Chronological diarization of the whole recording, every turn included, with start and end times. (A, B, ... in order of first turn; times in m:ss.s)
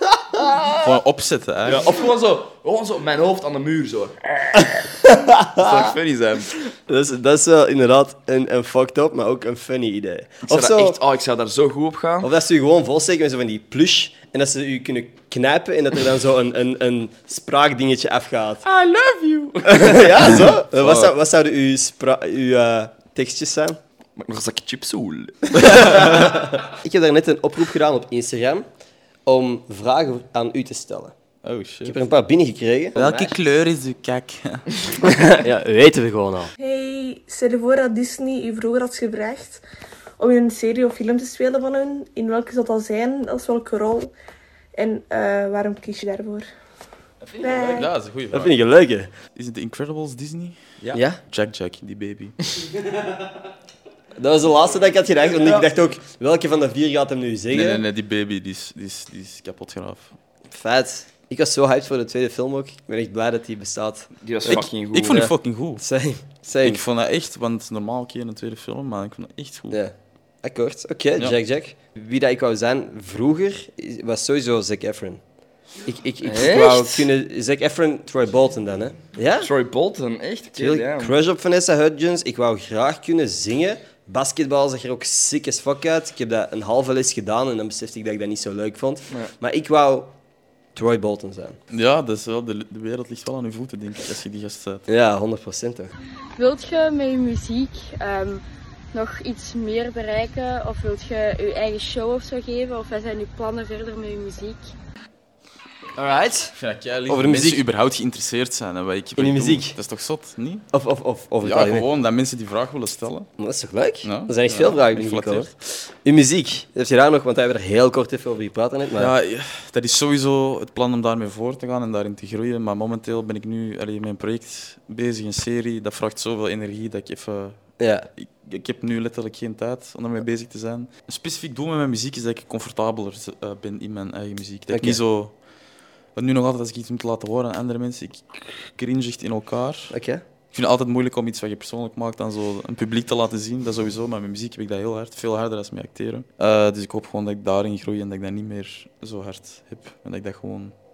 0:00.1-0:00.8 A
0:00.8-0:01.9 B
0:01.6-0:05.0 C
0:04.6-0:05.8 A
0:05.5-0:06.6 C
0:06.9-0:11.0 A
0:10.5-0:12.3 C
0:12.2-0:18.6 A
0:18.6-0:20.9 C
0:19.6-0:23.8 A
0:24.2-0:26.2 C
0:25.6-0:28.6 A
0:29.2-0:31.1 A
0:31.4-0:32.0 B
0:31.8-0:33.4 A
0:32.9-0:34.9 B
0:35.2-0:36.5 A
0:36.6-0:39.6 D
0:40.2-0:44.1 D
0:44.8-0:46.5 D
0:47.3-0:47.6 C
0:47.4-0:47.9 D
0:47.6-0:48.5 B
0:48.3-0:49.1 A
0:49.4-0:50.6 B
0:50.9-0:51.2 A
0:51.2-0:52.4 B
0:54.2-0:57.8 A
0:57.5-1:00.1 B
1:00.5-1:04.6 A
1:04.2-1:05.3 C
1:04.5-1:05.8 B
1:05.8-1:06.8 A
1:06.6-1:09.8 B
1:09.7-1:15.2 A
1:15.8-1:19.5 A
1:16.2-1:17.1 C
1:19.4-1:21.1 C
1:20.6-1:30.1 A
1:30.7-1:31.6 A
1:31.7-1:34.9 B
1:34.9-1:35.9 A
1:36.4-1:38.4 E
1:38.9-1:44.7 E
1:46.0-1:46.5 A
1:46.5-1:50.6 B
1:47.1-1:47.6 A
1:49.2-1:49.8 A
1:50.7-1:51.9 A
1:51.4-1:53.3 B
1:53.4-1:59.1 A
1:54.0-1:55.5 B
1:58.9-2:15.4 B
2:07.8-2:08.1 A
2:14.7-2:15.0 A
2:16.1-2:19.9 B
2:19.9-2:20.2 A
2:20.5-2:30.7 B